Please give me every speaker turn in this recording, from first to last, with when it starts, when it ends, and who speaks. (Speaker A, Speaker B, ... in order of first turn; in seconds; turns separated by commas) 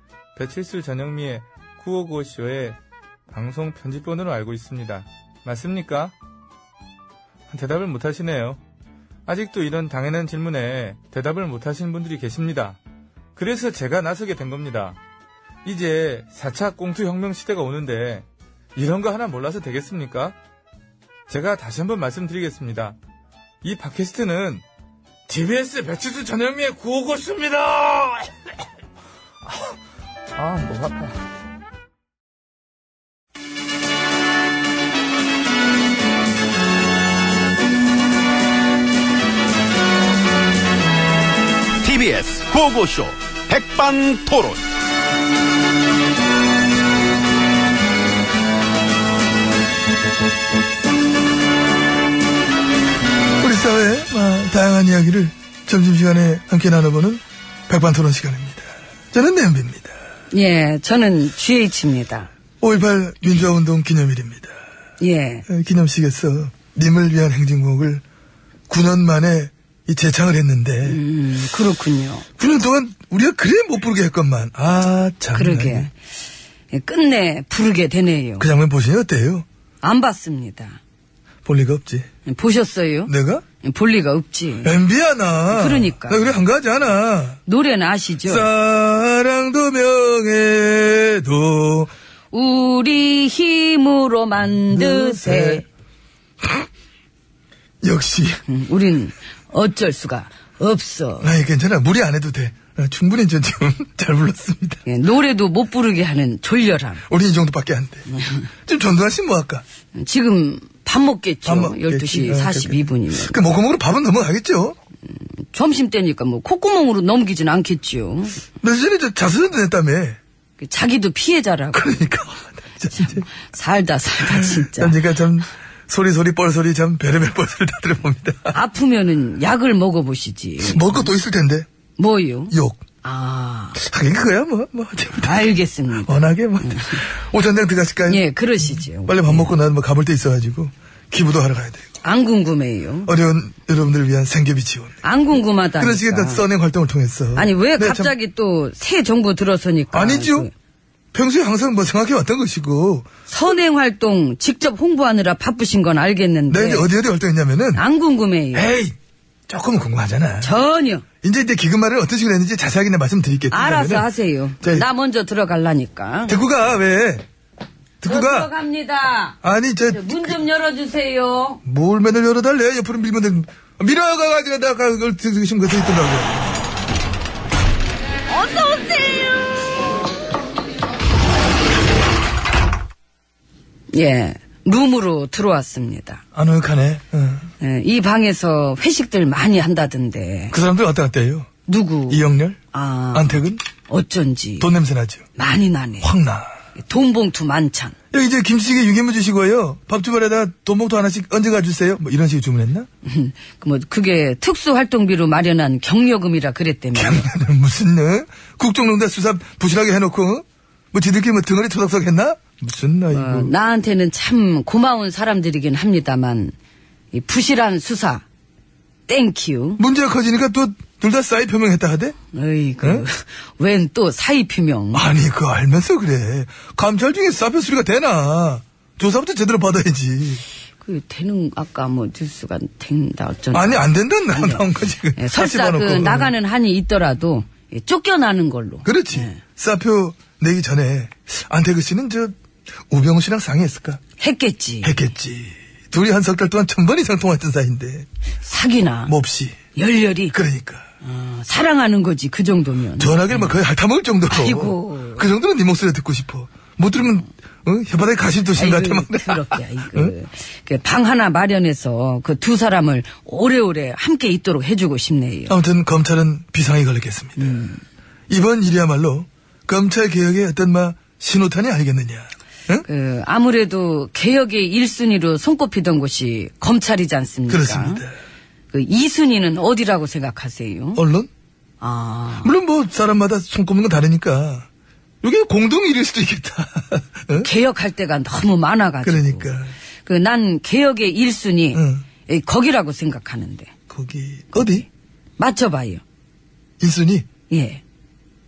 Speaker A: 0.4-2.8, Speaker A: 3.3-6.1, Speaker A: 7.5-8.6, Speaker A: 9.3-12.8, Speaker A: 13.4-15.0, Speaker A: 15.7-18.2, Speaker A: 18.8-20.4, Speaker A: 21.3-23.0, Speaker A: 23.6-24.6, Speaker A: 25.3-28.5, Speaker A: 29.4-29.8, Speaker A: 30.4-31.2, Speaker B: 41.8-44.6, Speaker C: 53.4-60.0, Speaker D: 60.3-62.3, Speaker C: 62.6-64.5, Speaker D: 65.0-65.4, Speaker C: 65.5-68.0, Speaker C: 68.7-71.0, Speaker D: 70.9-72.2, Speaker C: 72.4-75.9, Speaker D: 75.3-75.9, Speaker D: 76.7-78.5, Speaker C: 78.4-79.5, Speaker D: 79.8-80.8, Speaker C: 81.5-82.1, Speaker D: 82.3-83.1, Speaker C: 83.1-83.4, Speaker D: 83.6-84.7, Speaker C: 84.6-87.4, Speaker D: 85.5-86.3, Speaker D: 87.5-88.5, Speaker C: 88.2-91.9, Speaker D: 92.3-95.7, Speaker C: 94.7-95.6, Speaker C: 97.8-98.4, Speaker D: 98.5-101.3, Speaker C: 101.2-104.8, Speaker D: 104.9-107.0, Speaker C: 107.1-109.6, Speaker D: 110.0-113.3, Speaker C: 111.5-114.8, Speaker D: 115.1-118.4, Speaker C: 118.6-120.2, Speaker D: 120.6-121.9, Speaker C: 121.7-123.3, Speaker D: 123.0-125.0, Speaker C: 124.2-128.6, Speaker D: 128.5-131.1, Speaker C: 130.6-131.7, Speaker D: 132.0-133.8, Speaker C: 132.5-132.8, Speaker C: 133.8-135.5, Speaker D: 135.2-137.0, Speaker C: 136.0-138.2, Speaker D: 138.1-139.6, Speaker C: 138.9-141.9, Speaker D: 142.0-143.1, Speaker C: 143.1-145.0, Speaker D: 145.0-146.4, Speaker C: 145.8-148.2, Speaker D: 147.3-150.5, Speaker C: 149.9-150.5, Speaker C: 151.1-153.1, Speaker D: 153.3-156.9, Speaker C: 156.5-157.8, Speaker D: 157.8-158.7, Speaker C: 158.5-158.9, Speaker C: 159.5-160.5, Speaker D: 160.4-161.0, Speaker C: 161.2-164.1, Speaker D: 163.5-166.4, Speaker C: 166.3-167.2, Speaker C: 168.0-168.5, Speaker D: 168.0-169.4, Speaker C: 169.4-170.4, Speaker D: 169.9-171.6, Speaker C: 171.7-176.4, Speaker D: 178.3-179.3, Speaker D: 183.9-186.2, Speaker C: 186.3-187.5, Speaker D: 187.6-190.6, Speaker C: 190.5-191.5, Speaker D: 191.7-194.7, Speaker C: 192.1-192.6, Speaker C: 193.1-193.6, Speaker C: 194.6-195.2, Speaker D: 195.4-196.1, Speaker C: 196.0-196.5, Speaker D: 196.8-197.9, Speaker C: 198.1-202.9, Speaker D: 203.0-207.2, Speaker C: 206.9-213.5, Speaker D: 213.1-216.5, Speaker D: 217.1-218.2, Speaker D: 219.1-219.8, Speaker C: 219.8-222.2, Speaker D: 222.3-225.1, Speaker C: 224.9-230.4, Speaker D: 230.8-239.4, Speaker C: 233.5-236.3, Speaker C: 238.8-242.3, Speaker C: 242.9-244.0, Speaker D: 244.2-244.9, Speaker C: 244.8-248.1, Speaker D: 248.4-249.1, Speaker C: 249.1-249.6, Speaker D: 249.7-250.3, Speaker C: 250.3-250.8, Speaker D: 251.0-253.5, Speaker C: 253.0-260.1, Speaker D: 254.3-255.3, Speaker D: 258.5-265.6, Speaker C: 265.5-267.8, Speaker D: 267.5-267.8, Speaker C: 268.3-272.9, Speaker D: 272.9-278.0, Speaker C: 277.5-278.2, Speaker D: 278.7-281.0, Speaker C: 281.0-281.3, Speaker D: 281.8-282.5, Speaker C: 282.4-284.7, Speaker C: 285.2-287.5, Speaker D: 287.4-293.7, Speaker C: 289.0-289.7, Speaker C: 291.7-292.0, Speaker C: 293.9-294.9, Speaker D: 295.4-296.0, Speaker C: 296.8-297.3, Speaker D: 297.5-297.8